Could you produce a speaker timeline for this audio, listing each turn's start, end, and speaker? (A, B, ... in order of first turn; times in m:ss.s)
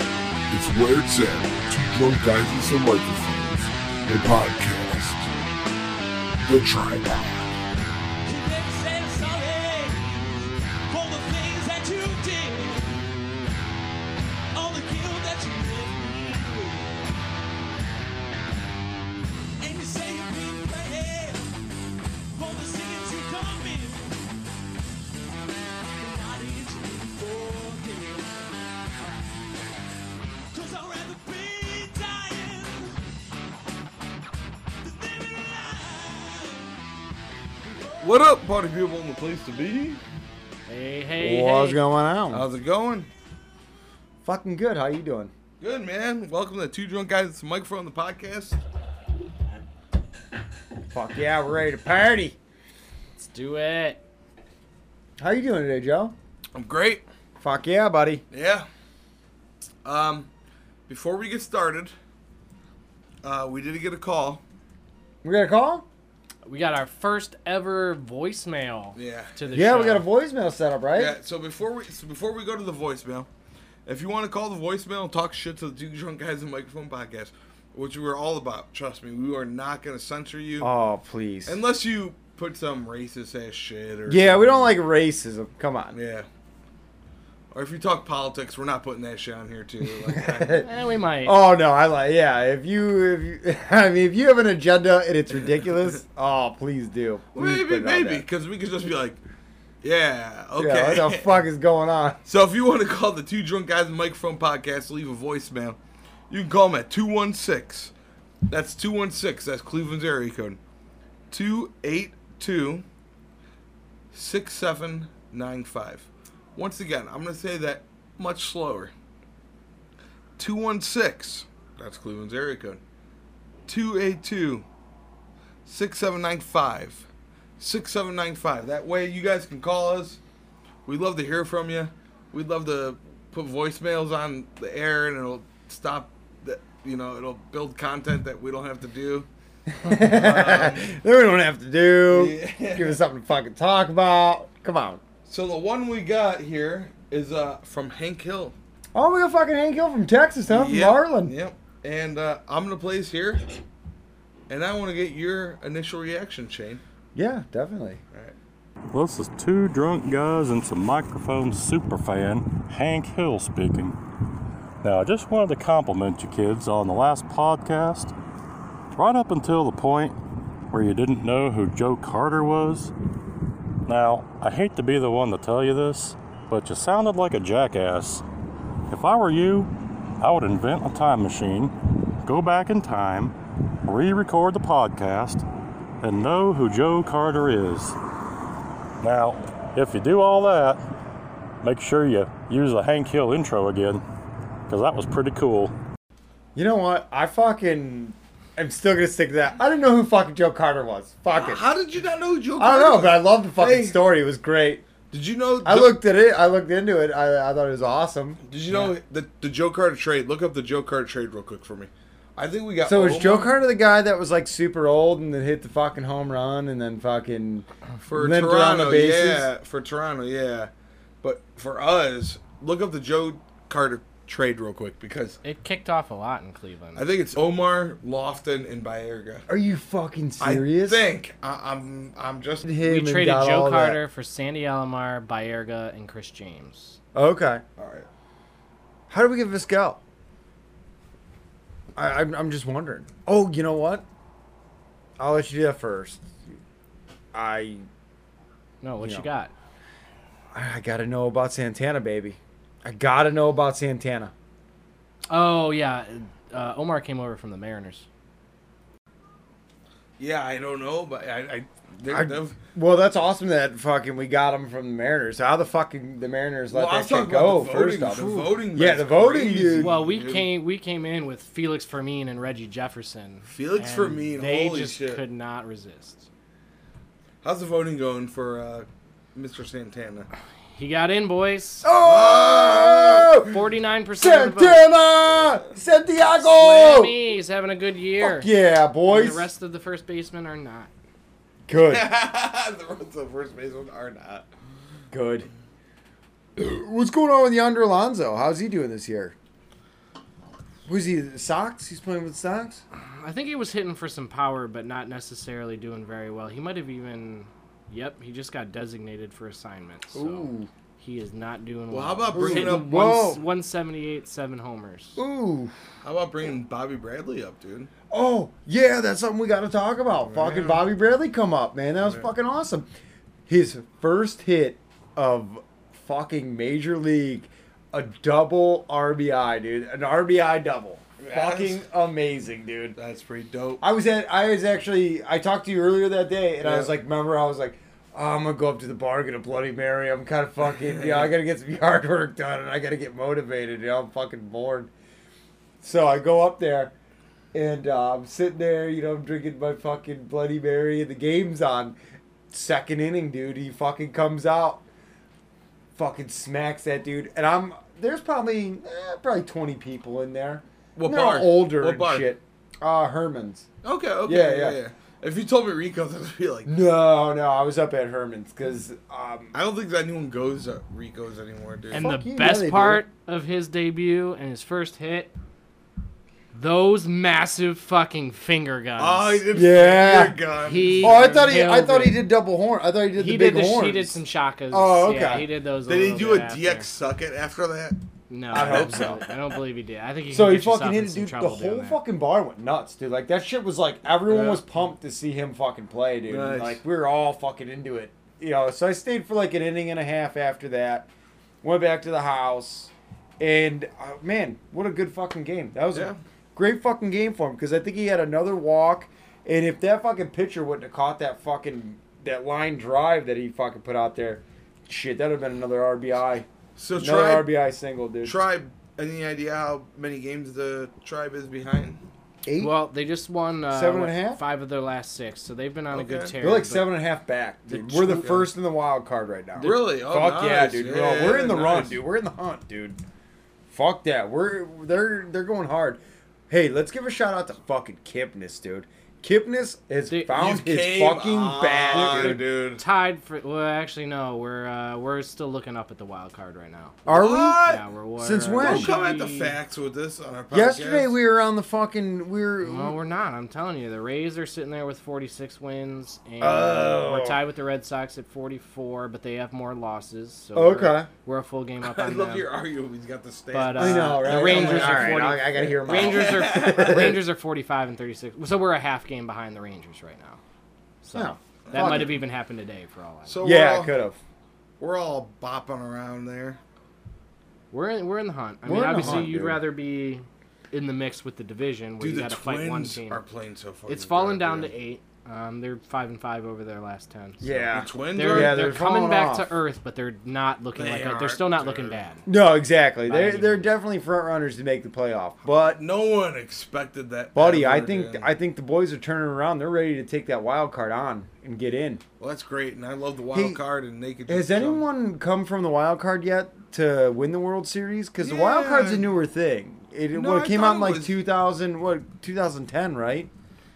0:00.5-0:05.3 A
0:06.5-0:07.4 A
0:08.2-0:12.9 B
0:14.5-0:16.9 B
0:19.6-0:21.4 B
0:22.3-0:24.1 B
0:26.0-0:29.2 B
0:30.5-0:33.0 B
0:34.8-0:36.8 B
0:37.6-0:38.2 B
0:38.0-0:40.0 C
0:40.7-0:41.8 D
0:41.2-0:42.4 E
0:42.3-0:43.1 C
0:44.2-0:45.3 E
0:45.6-0:48.6 C
0:50.9-0:52.4 E
0:53.1-0:54.0 D
0:55.2-0:56.1 E
0:56.5-0:57.0 C
0:57.4-0:58.2 E
0:58.3-0:58.7 C
0:59.8-1:00.3 C
1:00.9-1:01.9 C
1:03.2-1:04.4 C
1:05.2-1:05.8 E
1:06.4-1:10.1 D
1:09.0-1:09.4 C
1:09.5-1:11.2 E
1:10.9-1:13.3 C
1:13.8-1:20.7 C
1:20.6-1:21.6 E
1:21.4-1:24.7 C
1:24.1-1:25.9 E
1:25.9-1:26.2 C
1:27.5-1:30.6 C
1:29.9-1:30.7 E
1:30.6-1:31.4 D
1:31.2-1:38.2 E
1:37.3-1:39.2 C
1:39.8-1:41.4 C
1:40.6-1:42.2 E
1:42.2-1:45.8 C
1:46.3-1:47.9 C
1:48.5-1:50.6 C
1:51.3-1:52.8 C
1:54.1-1:58.9 C
2:00.4-2:02.8 C
2:03.7-2:04.6 C
2:05.6-2:07.0 C
2:07.6-2:10.2 C
2:10.8-2:19.3 C
2:19.7-2:25.0 E
2:19.9-2:20.9 C
2:22.1-2:23.0 C
2:25.2-2:28.5 C
2:28.9-2:31.3 E
2:30.5-2:33.4 C
2:34.5-2:36.8 C
2:37.1-2:38.0 E
2:38.9-2:44.0 F
2:44.8-2:48.1 F
2:48.9-2:50.2 F
2:50.7-2:52.9 F
2:53.8-2:58.2 F
2:58.9-3:05.4 F
3:06.0-3:08.0 F
3:09.0-3:10.8 F
3:11.6-3:14.0 F
3:14.7-3:15.7 F
3:16.5-3:21.6 E
3:21.3-3:24.0 C
3:22.6-3:24.8 E
3:25.1-3:26.0 C
3:25.6-3:28.4 E
3:28.5-3:33.5 C
3:32.8-3:39.5 E
3:38.0-3:40.7 C
3:41.2-3:45.4 C
3:45.4-3:47.0 D
3:47.0-3:49.4 C
3:49.5-3:51.0 E
3:50.4-3:52.6 C
3:52.6-3:54.0 E
3:52.8-3:57.0 D
3:57.1-3:57.6 E
3:57.8-3:58.1 C
3:59.1-4:00.0 E
4:01.9-4:04.0 E
4:05.2-4:06.3 E
4:07.3-4:07.9 E
4:08.8-4:09.5 D
4:09.0-4:09.2 E
4:10.5-4:14.3 E
4:15.3-4:18.0 D
4:20.2-4:22.6 C
4:22.1-4:29.9 E
4:26.7-4:30.5 C
4:28.2-4:28.5 D
4:29.8-4:36.3 D
4:33.4-4:35.2 C
4:37.4-4:40.3 C
4:40.7-4:41.9 D
4:41.8-4:43.6 E
4:42.0-4:43.3 C
4:43.4-4:44.8 D
4:44.2-4:47.1 E
4:46.4-4:48.5 D
4:48.2-4:49.5 E
4:49.1-4:50.9 D
4:51.7-4:52.0 E
4:51.9-4:54.4 C
4:55.1-4:55.5 E
4:56.6-4:59.3 E
5:00.8-5:02.8 E
5:03.0-5:15.2 D
5:10.1-5:10.7 E
5:11.9-5:13.3 C
5:12.3-5:13.4 E
5:15.2-5:15.7 E
5:16.0-5:17.9 C
5:18.1-5:22.9 E
5:20.2-5:20.8 C
5:23.5-5:33.0 E
5:31.2-5:31.8 C
5:33.0-5:33.8 C
5:33.8-5:44.9 E
5:36.6-5:36.9 C
5:40.9-5:41.3 C
5:45.8-5:46.9 E
5:47.5-5:52.0 E
5:52.5-5:54.8 E
5:55.9-6:03.7 E
6:01.0-6:02.3 C
6:03.8-6:06.7 C
6:04.2-6:04.8 E
6:06.6-6:09.5 E
6:09.5-6:12.0 C
6:11.9-6:13.0 E
6:11.9-6:15.3 D
6:16.5-6:19.4 D
6:19.0-6:21.4 C
6:19.5-6:20.4 E
6:20.6-6:22.2 D
6:21.0-6:24.2 E
6:23.2-6:26.9 D
6:24.7-6:25.4 E
6:25.8-6:28.0 C
6:28.3-6:32.0 D
6:28.5-6:29.3 C
6:28.5-6:29.2 E
6:30.3-6:41.1 E
6:34.2-6:34.6 C
6:36.3-6:36.8 C
6:41.6-6:58.4 E
6:56.8-6:57.6 C
6:58.2-7:02.0 C
7:02.4-7:02.7 E
7:02.6-7:06.9 D
7:03.7-7:04.4 E
7:05.9-7:06.3 C
7:06.4-7:13.0 E
7:07.7-7:08.4 D
7:08.1-7:08.5 C
7:09.5-7:09.8 D
7:09.6-7:12.0 C
7:13.7-7:22.4 E
7:20.1-7:20.4 D
7:20.3-7:22.8 C
7:21.9-7:27.0 D
7:27.0-7:27.7 E
7:27.0-7:27.8 C
7:27.6-7:29.6 D
7:28.2-7:28.9 E
7:28.6-7:31.2 C
7:30.5-7:33.0 E
7:32.6-7:42.5 D
7:36.4-7:37.3 E
7:36.5-7:37.3 C
7:40.5-7:41.1 E
7:41.8-7:47.2 C
7:43.5-7:50.4 D
7:43.7-7:47.2 E
7:51.0-7:53.4 D
7:51.1-7:52.2 E
7:51.7-7:52.1 C
7:53.2-7:53.9 C
7:53.4-7:54.2 E
7:54.8-7:56.6 C
7:57.7-8:03.2 D
7:58.6-7:59.6 E
7:59.0-7:59.3 C
8:02.0-8:04.7 C
8:03.9-8:12.2 D
8:07.4-8:09.5 E
8:07.7-8:08.6 C
8:10.7-8:12.0 C
8:12.2-8:15.8 E
8:13.0-8:13.7 D
8:15.5-8:18.3 C
8:17.3-8:22.0 E
8:22.2-8:24.8 C
8:23.3-8:23.6 E
8:24.3-8:33.3 E
8:28.2-8:29.1 C
8:30.1-8:31.2 C